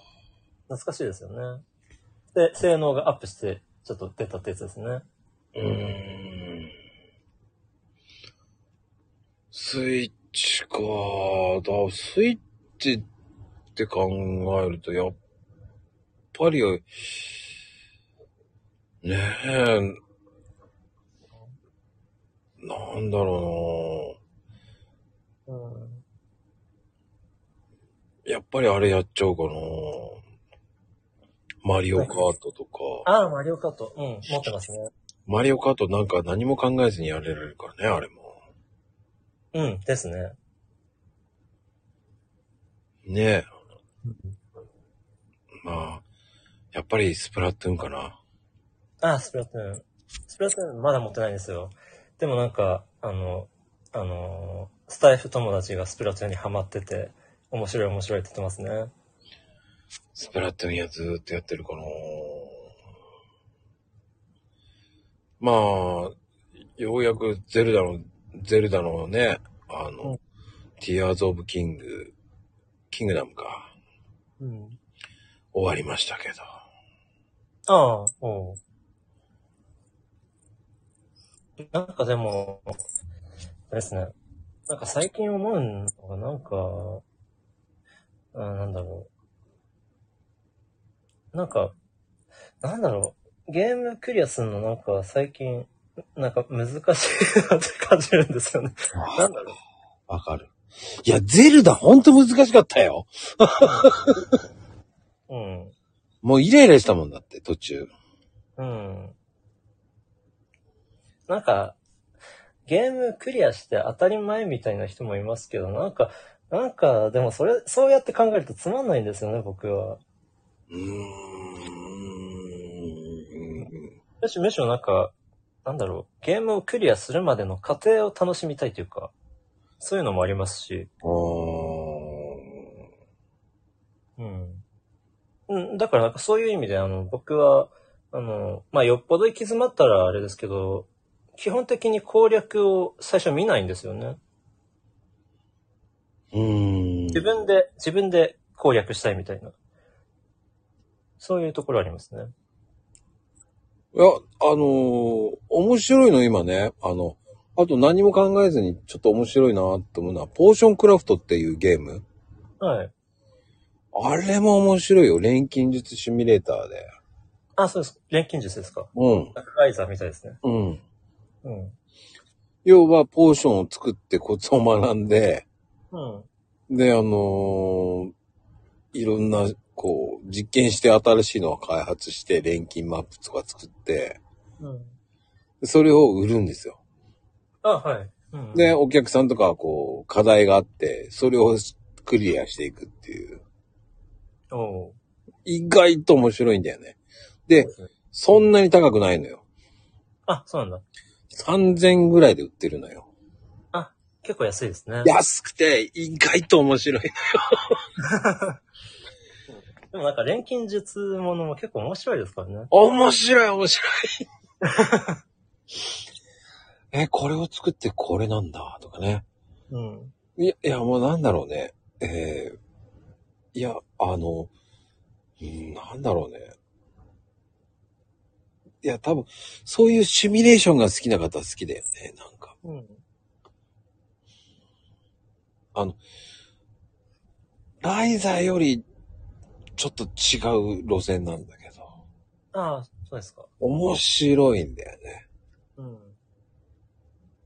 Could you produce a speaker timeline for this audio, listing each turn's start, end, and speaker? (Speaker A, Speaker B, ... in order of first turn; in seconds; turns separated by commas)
Speaker A: 0.7-1.6, Speaker A: 2.3-5.1, Speaker B: 5.5-6.7, Speaker B: 9.5-13.1, Speaker B: 13.8-15.2, Speaker B: 16.3-17.3, Speaker B: 19.0-20.0, Speaker B: 22.6-24.2, Speaker A: 25.5-26.0, Speaker B: 28.3-30.2, Speaker B: 31.6-33.1, Speaker A: 33.1-34.9, Speaker B: 35.3-38.4, Speaker A: 39.5-40.4, Speaker B: 43.0-43.5, Speaker A: 44.0-44.4, Speaker B: 45.6-46.0, Speaker B: 46.7-48.2, Speaker A: 49.0-58.9, Speaker B: 60.1-62.6, Speaker B: 65.4-66.2, Speaker B: 66.8-70.1, Speaker B: 70.8-72.1, Speaker B: 72.9-73.7, Speaker A: 74.4-74.8, Speaker B: 75.5-76.4, Speaker A: 77.7-78.6, Speaker A: 81.6-82.8, Speaker A: 83.7-84.1, Speaker A: 84.7-87.0, Speaker A: 88.3-89.1, Speaker A: 91.3-91.8, Speaker A: 92.6-99.6, Speaker B: 99.0-99.3, Speaker B: 100.1-100.5, Speaker B: 101.0-104.3, Speaker A: 103.6-104.0, Speaker A: 105.3-105.7, Speaker B: 106.2-107.9, Speaker A: 108.6-109.2, Speaker A: 111.3-111.8, Speaker A: 112.7-120.0, Speaker B: 120.7-123.9, Speaker A: 124.2-129.1, Speaker A: 129.8-130.9, Speaker B: 131.0-132.6, Speaker A: 134.2-134.6, Speaker A: 135.5-144.2, Speaker B: 146.3-147.3, Speaker A: 147.1-149.5, Speaker A: 151.2-152.3, Speaker B: 153.9-162.1, Speaker A: 162.6-162.9, Speaker B: 163.9-166.9, Speaker A: 167.6-170.4, Speaker B: 168.9-169.3, Speaker B: 170.4-170.8, Speaker A: 171.4-171.8, Speaker B: 172.7-175.4, Speaker A: 175.9-176.3, Speaker B: 176.7-178.1, Speaker B: 178.9-184.2, Speaker A: 184.6-185.0, Speaker B: 185.6-186.8, Speaker A: 187.6-188.8, Speaker B: 188.5-193.4, Speaker A: 194.5-195.0, Speaker B: 195.4-199.4, Speaker A: 197.6-198.5, Speaker A: 200.3-200.8, Speaker B: 201.3-203.1, Speaker A: 203.7-205.1, Speaker B: 205.0-207.8, Speaker A: 208.0-208.6, Speaker A: 209.5-212.7, Speaker B: 212.7-214.3, Speaker A: 214.6-215.2, Speaker B: 216.9-219.2, Speaker A: 219.7-220.1, Speaker B: 220.4-222.6, Speaker B: 223.5-224.5, Speaker B: 225.4-226.5, Speaker B: 228.8-232.6, Speaker A: 232.6-233.0, Speaker B: 237.8-238.8, Speaker B: 239.8-241.9, Speaker A: 242.5-243.5, Speaker B: 243.6-245.2, Speaker A: 245.8-246.2